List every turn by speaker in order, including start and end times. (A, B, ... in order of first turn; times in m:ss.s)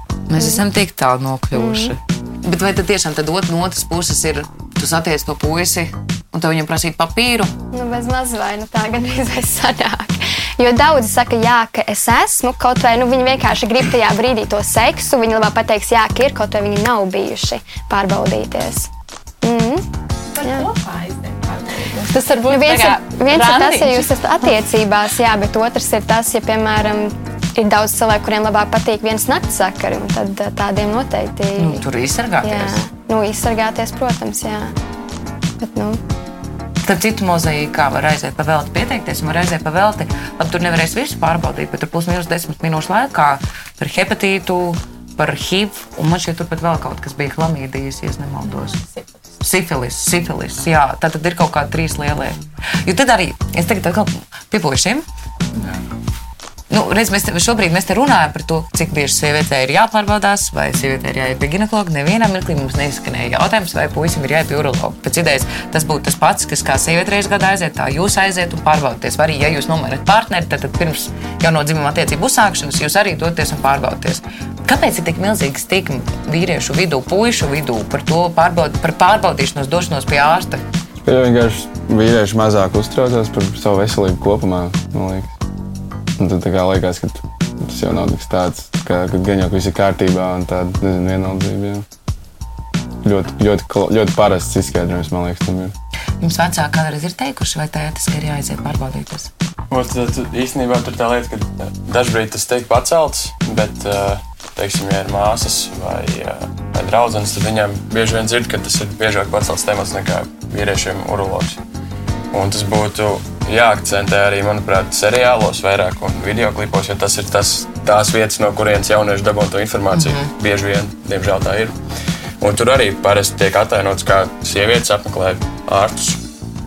0:00.3-0:07.5 A
0:01.6-0:02.0 B
0:07.7-0:18.9 B
0:19.4-0:19.9 B
0:20.4-0:24.1 C
0:20.4-0:20.7 B
0:22.5-0:31.8 B
0:31.6-0:32.8 A
0:32.4-0:34.7 B
0:35.6-0:36.0 B
0:36.8-0:48.8 A
0:48.5-0:49.2 C
0:49.4-0:55.1 A
0:56.7-1:20.6 A
1:21.0-1:25.3 D
1:26.2-1:31.9 D
1:33.0-1:35.7 D
1:36.2-1:39.3 A
1:39.7-1:51.6 E
1:52.3-2:01.8 E
1:59.9-2:00.3 A
2:02.4-2:06.2 E